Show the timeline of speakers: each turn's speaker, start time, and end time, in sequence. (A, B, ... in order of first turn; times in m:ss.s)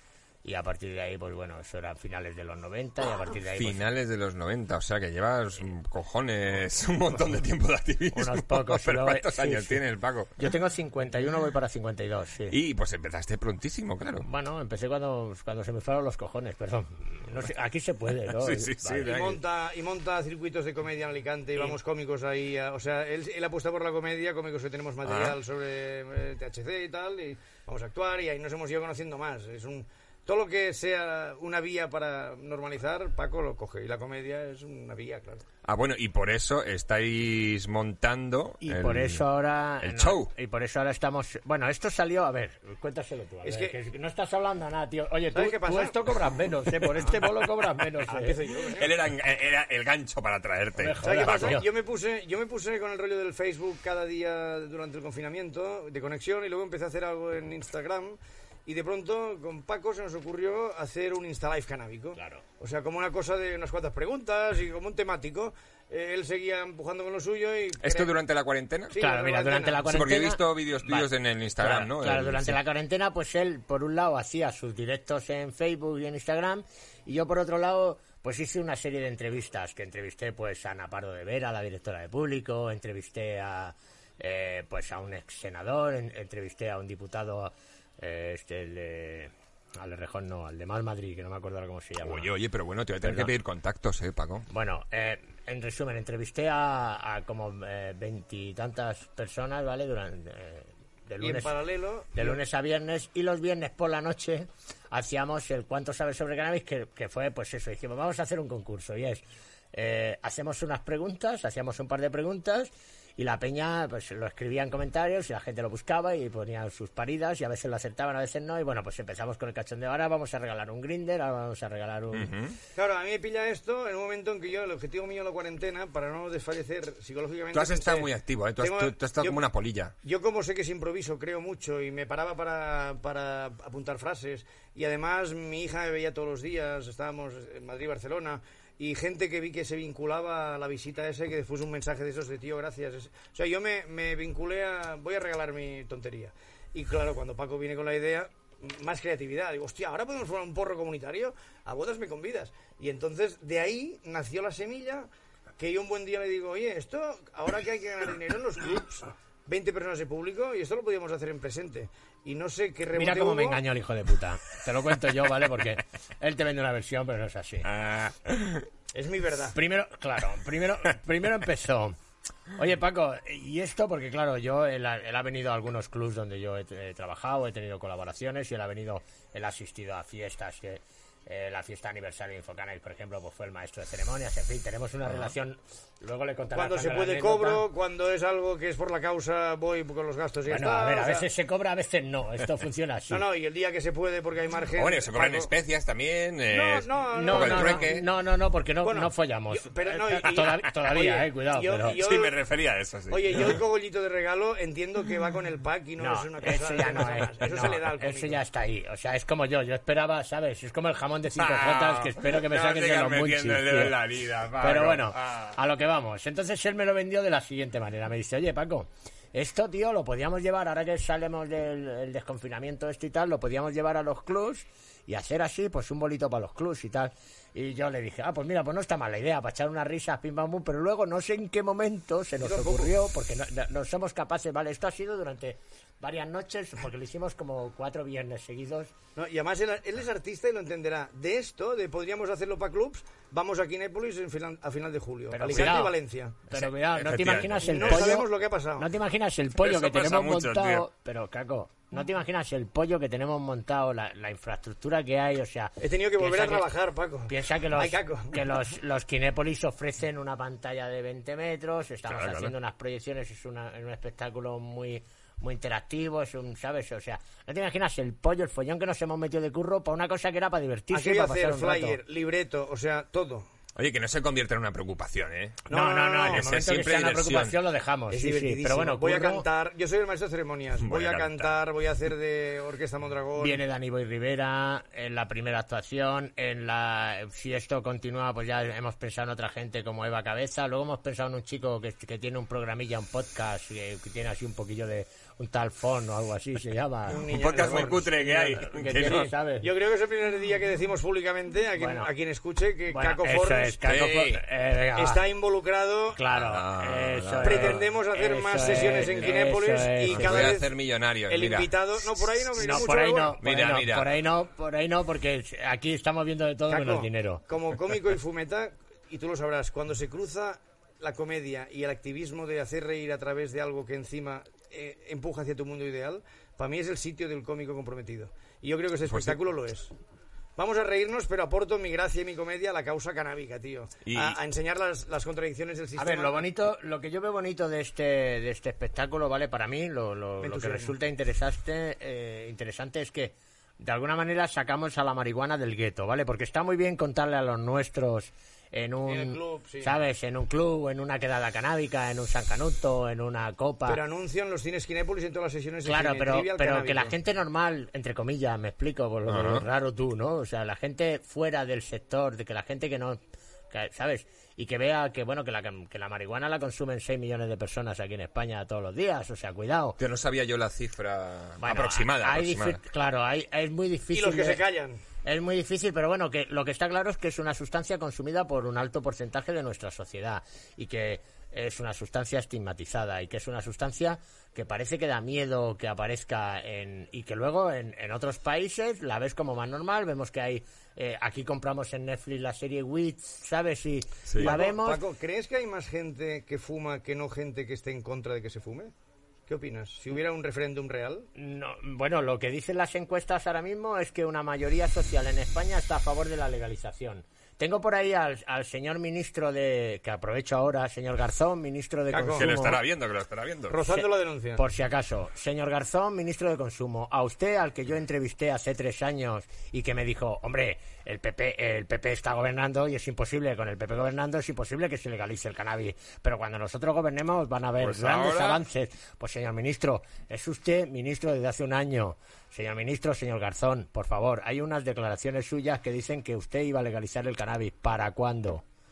0:00.4-0:03.8 A
0:03.5-0:10.3 B
0:08.1-0:09.8 A
0:10.4-0:12.5 A
0:12.5-0:14.2 B
0:14.2-0:19.1 A
0:18.2-0:19.4 B
0:19.0-0:35.4 C
0:25.0-0:25.4 B
0:35.6-0:39.2 B
0:38.6-0:48.4 A
0:39.8-0:40.3 B
0:43.4-0:43.8 C
0:45.3-0:46.0 C
0:48.1-0:48.9 C
0:48.6-0:51.6 B
0:50.8-0:51.6 A
0:51.0-1:08.1 C
1:02.2-1:02.4 A
1:07.8-1:08.9 B
1:08.9-1:09.9 C
1:09.0-1:32.3 A
1:09.8-1:12.6 B
1:32.0-1:34.5 B
1:33.0-1:33.3 A
1:34.5-1:41.5 A
1:41.2-1:42.4 C
1:42.1-2:02.3 A
2:02.1-2:02.6 B
2:02.7-2:08.1 C
2:07.5-2:09.9 B
2:08.6-2:09.4 C
2:10.0-2:35.1 C
2:35.6-2:43.6 C
2:42.9-2:47.7 A
2:47.6-2:48.7 B
2:48.9-2:49.6 C
2:49.5-2:52.0 A
2:52.5-3:07.6 A
3:06.5-3:11.3 C
3:10.5-3:13.2 A
3:13.1-3:15.5 C
3:14.7-3:18.0 B
3:16.5-3:18.0 C
3:17.1-3:22.0 A
3:18.8-3:22.4 C
3:22.0-3:23.6 B
3:23.1-3:28.4 C
3:26.0-3:34.0 A
3:31.4-3:35.6 B
3:34.6-3:58.9 A
3:52.4-3:52.9 C
3:59.2-4:06.5 C
4:05.3-4:05.9 A
4:06.5-4:16.7 A
4:06.6-4:08.2 B
4:07.2-4:08.9 C
4:09.6-4:10.9 B
4:15.8-4:18.4 C
4:17.3-4:32.0 A
4:22.1-4:22.5 B
4:30.9-4:33.5 C
4:33.8-4:35.6 B
4:35.7-4:36.4 C
4:35.7-4:39.4 A
4:36.3-4:37.6 B
4:38.1-4:43.6 C
4:40.8-4:41.5 B
4:43.4-4:59.6 A
4:57.1-4:58.1 C
4:57.2-4:59.3 B
4:59.0-5:03.8 C
5:01.8-5:02.1 A
5:02.9-5:05.2 A
5:03.8-5:04.4 B
5:05.0-5:06.2 C
5:06.1-5:10.5 A
5:06.3-5:07.8 B
5:07.4-5:10.7 C
5:08.9-5:09.4 B
5:10.1-5:12.7 B
5:11.3-5:13.4 C
5:12.6-5:17.4 A
5:13.4-5:14.1 B
5:16.7-5:29.9 C
5:29.0-5:29.4 B
5:30.6-5:36.4 C
5:34.0-5:34.4 B
5:36.0-5:54.0 A
5:40.4-5:41.0 C
5:49.1-5:50.0 C
5:53.8-5:57.1 C
5:55.8-6:03.2 A
5:59.3-5:59.6 B
6:03.7-6:10.0 A
6:10.0-6:12.8 B
6:11.6-6:14.6 A
6:14.1-6:15.0 C
6:15.2-6:35.0 A
6:34.3-6:34.5 B
6:34.4-6:38.9 C
6:39.5-6:41.3 C
6:41.4-6:52.8 A
6:52.1-6:52.5 C
6:52.4-6:53.8 B
6:53.7-6:54.6 C
6:54.6-7:18.6 A
7:07.8-7:08.6 B